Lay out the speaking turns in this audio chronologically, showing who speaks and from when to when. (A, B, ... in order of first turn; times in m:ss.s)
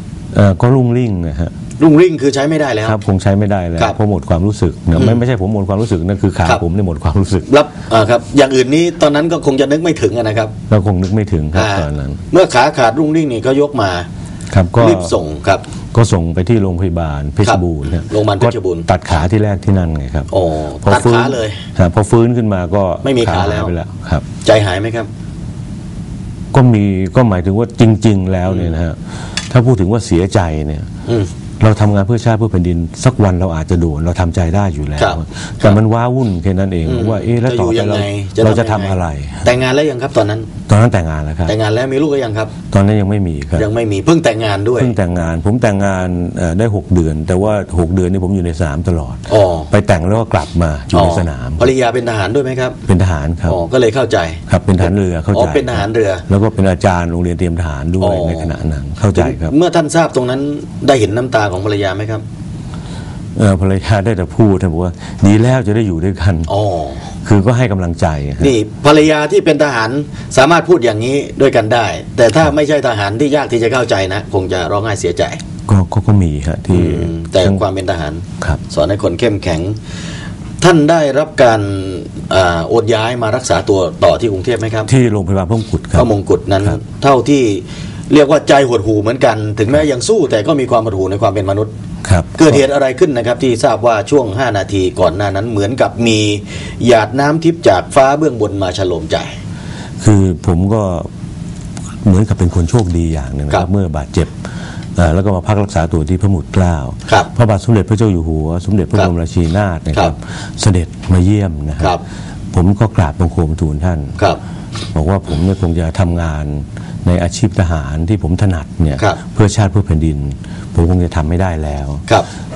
0:00.3-0:01.5 A
0:01.8-0:03.0 B
0:02.8-0:07.4 A
0:07.5-0:10.5 B
0:10.7-0:12.2 A
0:11.5-0:14.1 B
0:14.5-0:15.1 A
0:14.8-0:15.6 B
0:15.9-0:20.3 A
0:17.4-0:18.9 B
0:20.3-0:21.6 B
0:20.8-0:24.2 A
0:23.0-0:23.7 B
0:24.4-0:25.1 B
0:26.5-0:30.9 A
0:28.5-0:28.8 B
0:31.6-0:39.5 A
0:35.0-0:35.8 B
0:36.8-0:40.5 B
0:40.7-0:41.5 A
0:41.5-0:42.5 B
0:42.7-0:43.7 A
0:43.6-0:44.9 B
0:44.8-0:51.7 A
0:49.3-0:49.7 B
0:50.9-0:52.8 B
0:52.9-0:53.6 A
0:53.5-0:56.2 B
0:54.5-0:59.5 A
0:58.0-0:58.6 B
0:59.1-1:02.2 B
1:03.4-1:06.5 A
1:06.5-1:07.0 B
1:07.2-1:08.5 A
1:08.4-1:15.4 B
1:15.7-1:17.6 A
1:16.7-1:19.8 B
1:20.6-1:24.9 B
1:24.9-1:26.1 A
1:25.9-1:31.7 B
1:32.0-1:32.6 A
1:32.4-1:39.4 B
1:40.0-1:41.1 A
1:42.0-1:44.3 A
1:45.0-1:52.0 A
1:52.5-1:54.2 A
1:54.9-2:02.0 A